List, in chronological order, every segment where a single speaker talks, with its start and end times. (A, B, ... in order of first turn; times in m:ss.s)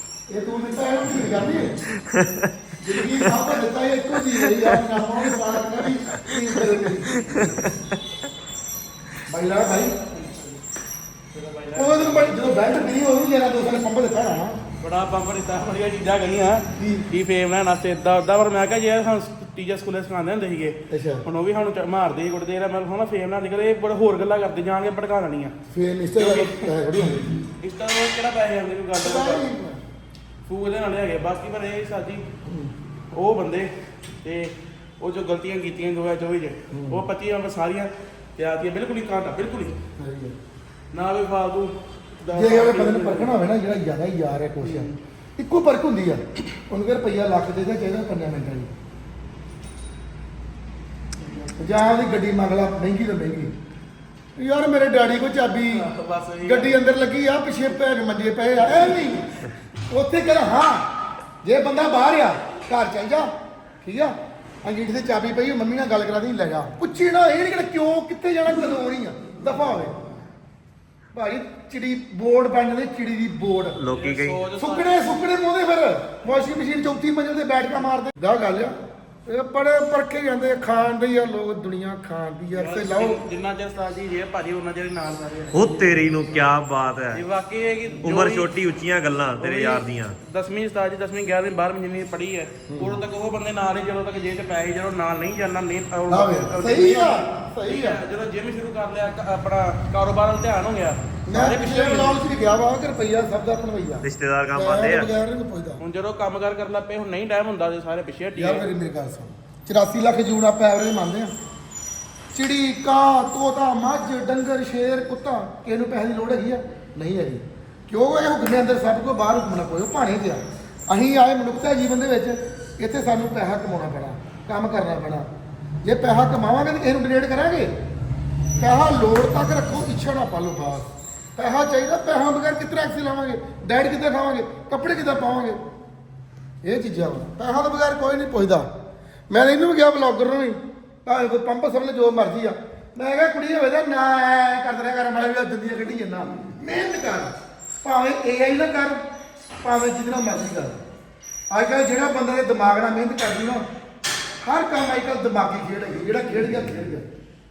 0:00.3-0:01.7 A
0:01.9-0:03.4 B
0:02.8-0:07.2 A
0:04.1-0:08.0 B
0:09.3-0:10.5 A
0:11.3-0:12.4 C
0:11.7-0:14.6 A
0:14.8-0:25.5 C
0:16.8-0:17.1 A
0:20.9-0:21.2 A
0:25.7-0:27.4 A
0:26.1-0:26.7 C
0:27.6-0:29.4 C
0:29.0-0:29.8 A
0:30.4-0:32.2 C
0:32.4-0:32.7 A
0:33.1-0:39.8 C
0:36.7-0:37.0 A
0:40.0-0:40.4 A
0:40.9-0:43.3 C
0:42.3-0:48.7 A
0:44.6-0:44.9 C
0:51.2-0:51.5 C
0:51.6-0:53.5 A
0:54.4-0:55.9 A
0:55.7-0:56.8 C
0:56.4-0:59.3 A
0:59.9-1:00.9 A
1:01.4-1:03.3 A
1:03.8-1:09.9 A
1:11.1-1:13.8 A
1:13.8-1:14.5 B
1:13.9-1:15.0 C
1:14.6-1:23.2 A
1:22.5-1:26.2 C
1:25.5-1:27.2 B
1:27.1-1:28.5 C
1:28.0-1:30.2 B
1:29.4-1:42.2 C
1:32.7-1:33.0 A
1:36.1-1:38.0 A
1:41.3-1:45.8 A
1:44.0-1:45.1 B
1:45.8-1:48.7 C
1:48.4-1:51.3 A
1:52.3-2:05.3 A
2:05.8-2:07.7 A
2:08.6-2:15.6 A
2:16.6-2:18.7 A
2:19.3-2:29.0 A
2:29.6-2:30.8 A
2:31.5-2:33.6 A
2:34.4-2:37.1 A